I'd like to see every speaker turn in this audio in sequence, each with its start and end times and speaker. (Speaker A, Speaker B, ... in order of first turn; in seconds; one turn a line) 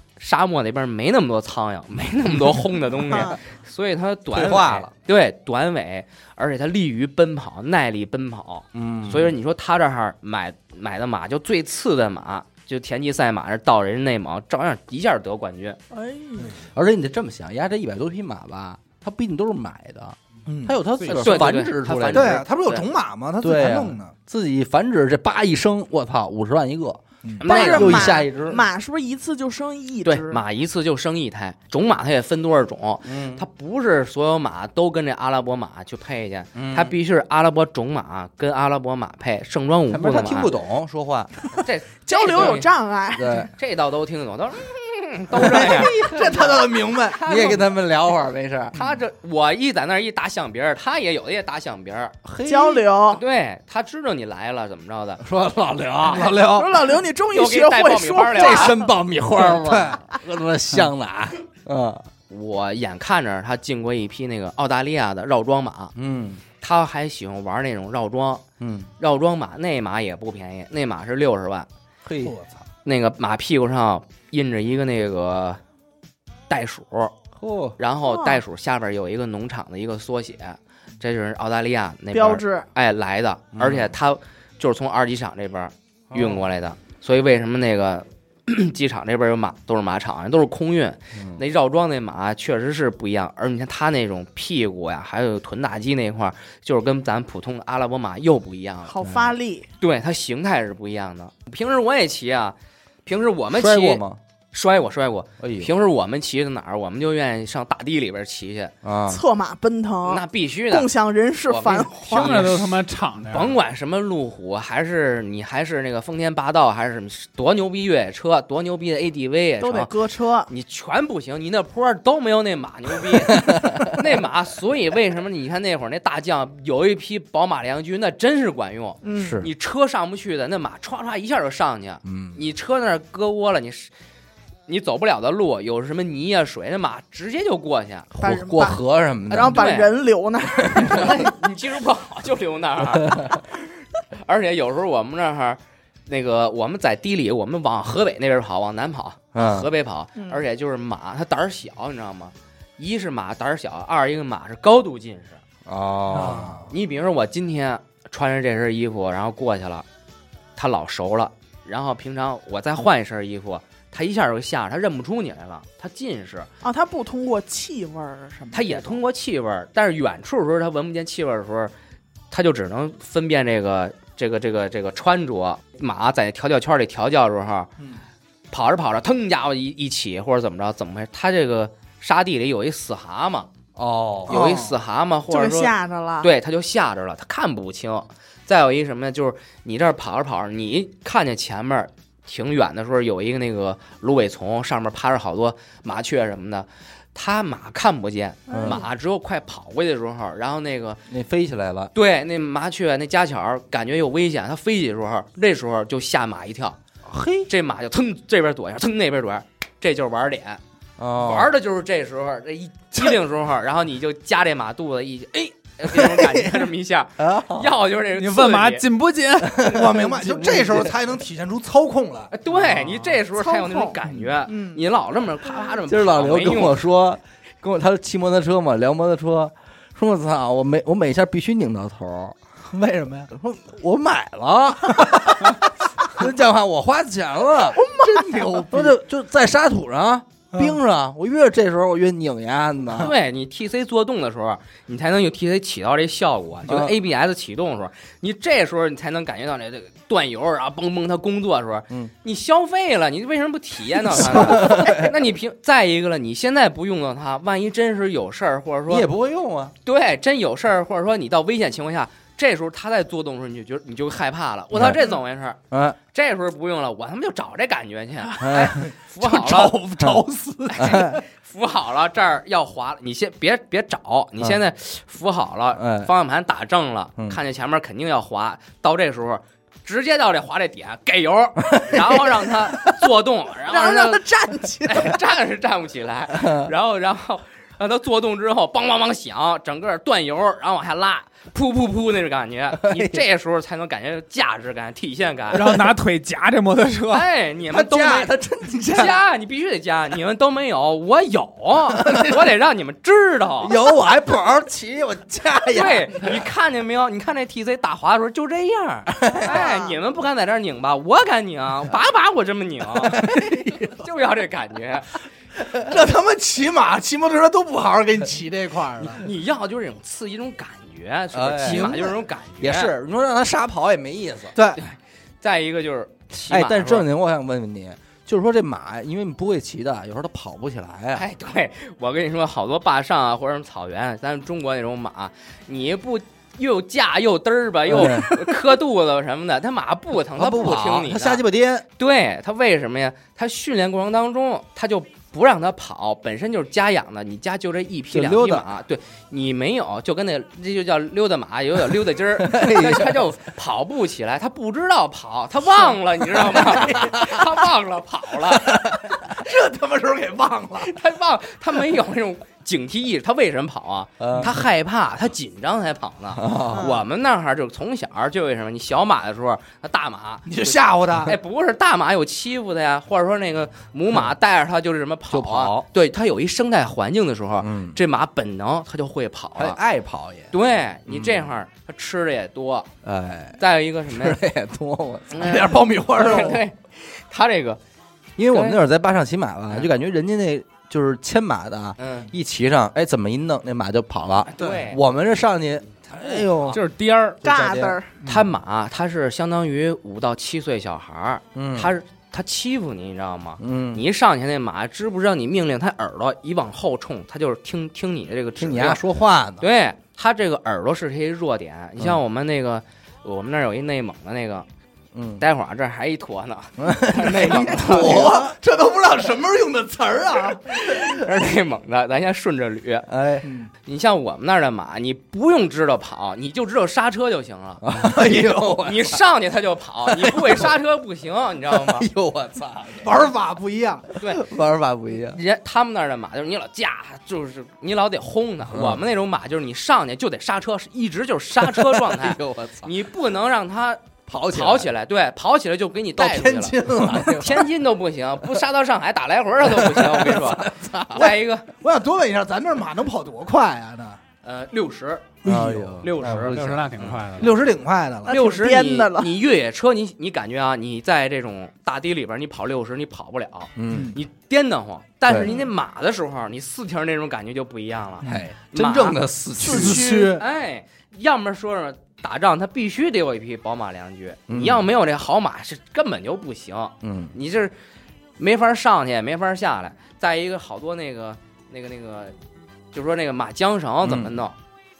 Speaker A: 0.2-15.8
Speaker B: 3.1-3.4
Speaker C: 4.3-4.9
Speaker C: 8.7-9.3
Speaker B: 15.9-16.6
Speaker C: 16.7-22.4
Speaker D: 20.4-20.8
Speaker A: 21.1-22.9
Speaker D: 22.1-24.1
Speaker C: 23.4-28.6
Speaker A: 27.4-28.2
Speaker B: 27.4-30.4
Speaker A: 30.1-40.5
Speaker C: 33.0-33.4
Speaker C: 36.5-37.0
Speaker C: 39.9-41.5
Speaker A: 41.5-42.7
Speaker B: 42.1-43.5
Speaker C: 43.1-43.5
Speaker A: 43.5-46.4
Speaker C: 45.3-46.6
Speaker D: 45.5-47.3
Speaker A: 47.0-47.6
Speaker C: 47.1-48.8
Speaker A: 48.7-52.1
Speaker C: 52.2-52.9
Speaker B: 52.4-53.2
Speaker A: 53.1-55.2
Speaker C: 55.2-56.8
Speaker D: 56.1-56.6
Speaker B: 56.4-58.9
Speaker A: 57.3-58.8
Speaker C: 58.3-62.0
Speaker D: 59.5-60.0
Speaker A: 62.3-65.9
Speaker C: 66.0-66.4
Speaker A: 66.6-68.4
Speaker C: 68.6-68.9
Speaker A: 69.0-71.7
Speaker C: 72.0-72.4
Speaker A: 72.8-75.6
Speaker A: 76.5-77.1
Speaker C: 77.4-77.8
Speaker A: 77.8-99.0
Speaker B: 78.0-78.4
Speaker B: 82.1-82.7
Speaker C: 83.5-83.9
Speaker C: 86.1-86.4
Speaker C: 91.1-91.4
Speaker B: 98.9-99.7
Speaker C: 99.0-99.4
Speaker A: 99.8-108.7
Speaker C: 103.5-104.2
Speaker C: 105.4-105.7
Speaker C: 108.8-109.2
Speaker B: 109.1-112.5
Speaker A: 110.0-110.9
Speaker A: 111.5-112.8
Speaker E: 112.0-113.5
Speaker A: 113.3-119.9
Speaker B: 119.6-120.5
Speaker A: 120.5-133.9
Speaker C: 123.3-124.0
Speaker B: 129.0-129.4
Speaker C: 129.1-129.5
Speaker C: 132.1-132.4
Speaker A: 134.7-138.1
Speaker C: 138.1-139.7
Speaker B: 138.2-141.3
Speaker A: 139.3-139.9
Speaker C: 140.7-141.1
Speaker A: 140.7-143.7
Speaker C: 143.0-143.3
Speaker A: 144.2-155.4
Speaker C: 149.3-149.7
Speaker B: 150.2-150.4
Speaker C: 155.7-156.7
Speaker D: 156.1-156.5
Speaker A: 156.7-159.8
Speaker A: 160.6-166.5
Speaker B: 166.6-169.0
Speaker A: 168.5-171.7
Speaker A: 172.3-177.7
Speaker A: 178.5-183.5
Speaker C: 183.8-184.5
Speaker A: 184.3-201.0
Speaker B: 184.3-184.7
Speaker B: 185.3-186.3
Speaker B: 198.5-198.8
Speaker C: 198.5-198.8
Speaker C: 201.1-201.9
Speaker A: 201.9-206.8
Speaker C: 207.1-207.5
Speaker A: 207.5-210.6
Speaker C: 211.0-211.5
Speaker A: 211.2-218.8
Speaker C: 215.9-217.7
Speaker E: 218.1-219.7
Speaker D: 219.6-222.3
Speaker C: 219.7-220.9
Speaker A: 222.3-226.8
Speaker B: 223.3-224.8
Speaker C: 225.9-232.4
Speaker D: 232.7-233.3
Speaker C: 233.3-243.1
Speaker D: 237.7-238.9
Speaker A: 242.9-259.1
Speaker C: 246.7-246.9
Speaker C: 254.1-255.1
Speaker C: 258.9-259.7
Speaker A: 259.8-265.6
Speaker C: 264.7-265.1
Speaker C: 265.7-266.0
Speaker A: 266.1-269.8
Speaker C: 268.4-268.8
Speaker D: 268.8-271.2
Speaker A: 270.7-284.3
Speaker C: 270.8-271.2
Speaker C: 275.8-276.1
Speaker B: 283.6-285.2
Speaker A: 284.8-295.7
Speaker C: 286.3-286.7
Speaker C: 292.7-293.2
Speaker E: 295.5-297.3
Speaker A: 297.1-298.3
Speaker C: 297.7-299.2
Speaker A: 298.9-303.7
Speaker C: 303.6-306.4
Speaker A: 305.7-313.3
Speaker C: 309.1-309.6
Speaker B: 309.3-310.0
Speaker C: 313.0-314.0
Speaker A: 314.0-315.1
Speaker D: 315.8-319.3
Speaker A: 319.2-322.9
Speaker C: 321.3-324.6
Speaker D: 321.7-322.1
Speaker D: 324.5-324.8
Speaker A: 324.8-327.1
Speaker C: 326.5-331.2
Speaker A: 331.1-341.4
Speaker C: 337.9-338.5
Speaker C: 340.3-341.9
Speaker A: 342.0-358.8
Speaker C: 348.1-348.7
Speaker C: 351.9-353.2
Speaker C: 356.3-357.4
Speaker C: 358.6-359.1
Speaker D: 359.2-361.0
Speaker A: 360.8-379.8
Speaker C: 364.2-364.5
Speaker C: 366.3-367.0
Speaker B: 366.7-367.0
Speaker D: 370.4-371.3
Speaker C: 375.3-375.9
Speaker C: 377.6-378.0
Speaker C: 379.6-380.5
Speaker A: 380.5-382.9
Speaker C: 381.1-381.5
Speaker C: 383.0-385.7
Speaker A: 383.6-384.4
Speaker A: 385.3-387.8
Speaker D: 385.4-386.6
Speaker C: 386.2-386.6
Speaker C: 388.4-396.8
Speaker A: 388.5-388.8
Speaker A: 392.0-392.3
Speaker A: 394.4-395.0
Speaker A: 396.0-396.8
Speaker E: 396.7-397.4
Speaker C: 397.4-398.0
Speaker B: 397.4-398.1
Speaker A: 398.2-409.0
Speaker C: 401.6-401.9
Speaker C: 403.6-404.0
Speaker C: 408.6-409.6
Speaker A: 409.6-414.6
Speaker C: 415.1-415.4
Speaker A: 415.4-418.4
Speaker C: 416.8-418.5
Speaker D: 417.5-421.1
Speaker A: 420.6-423.1
Speaker C: 423.1-423.4
Speaker D: 423.4-423.7
Speaker A: 423.9-432.1
Speaker C: 427.8-429.2
Speaker D: 428.1-428.8
Speaker C: 430.1-430.7
Speaker C: 431.6-433.1
Speaker D: 433.0-434.1
Speaker A: 434.2-434.4
Speaker C: 434.2-435.4
Speaker A: 435.1-451.7
Speaker C: 438.7-439.0
Speaker C: 441.6-442.9
Speaker C: 444.3-444.9
Speaker C: 446.1-447.7
Speaker D: 447.0-447.3
Speaker C: 449.6-451.3
Speaker D: 451.2-454.2
Speaker A: 454.4-455.4
Speaker C: 455.4-456.1
Speaker D: 455.4-456.4
Speaker A: 456.0-457.1
Speaker E: 456.2-457.6
Speaker D: 457.4-458.3
Speaker B: 458.3-459.3
Speaker A: 458.3-477.7
Speaker C: 463.8-464.1
Speaker D: 463.9-464.2
Speaker C: 465.3-465.5
Speaker C: 468.2-470.1
Speaker D: 469.6-470.4
Speaker B: 469.7-470.4
Speaker C: 474.5-474.9
Speaker C: 477.0-477.3
Speaker A: 478.4-482.3
Speaker A: 482.9-484.6
Speaker C: 484.0-484.4